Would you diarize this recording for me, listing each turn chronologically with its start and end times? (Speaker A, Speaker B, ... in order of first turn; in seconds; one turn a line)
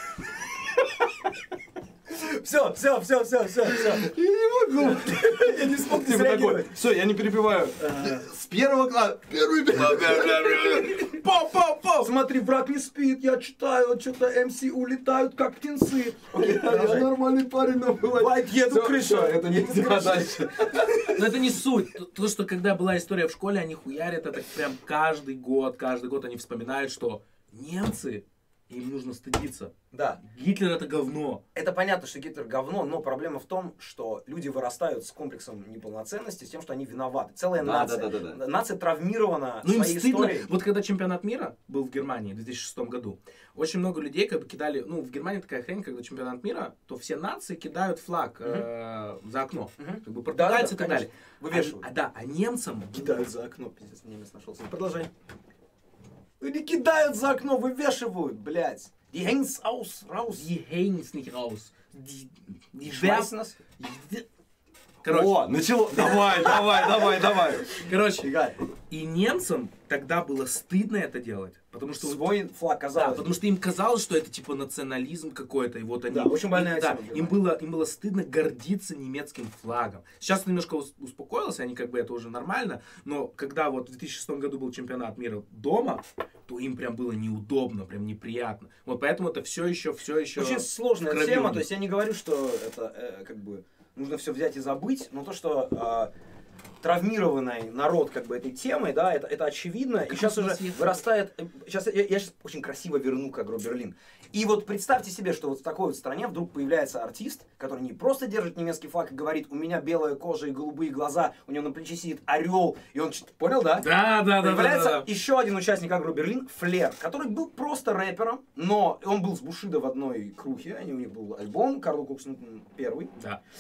Speaker A: 2.1-4.1
Speaker B: 3.7-11.1
Speaker A: 5.0-6.7
Speaker A: 7.8-8.2
Speaker C: 9.8-12.1
Speaker A: 12.0-17.1
Speaker B: 16.4-20.9
Speaker A: 18.2-21.2
Speaker C: 21.1-31.4
Speaker A: 29.9-30.2
Speaker A: 31.5-40.5
Speaker B: 37.6-38.4
Speaker C: 39.6-53.3
Speaker A: 49.8-51.9
Speaker A: 52.9-55.1
Speaker A: 56.4-60.5
Speaker C: 60.3-64.2
Speaker A: 62.8-63.6
Speaker C: 65.0-65.5
Speaker B: 65.0-67.7
Speaker A: 65.9-68.6
Speaker C: 67.8-68.3
Speaker C: 68.9-72.2
Speaker A: 72.0-73.4
Speaker C: 73.0-91.7
Speaker A: 76.1-77.4
Speaker A: 90.3-96.1
Speaker A: 96.8-123.1
Speaker C: 100.1-101.1
Speaker C: 113.8-115.1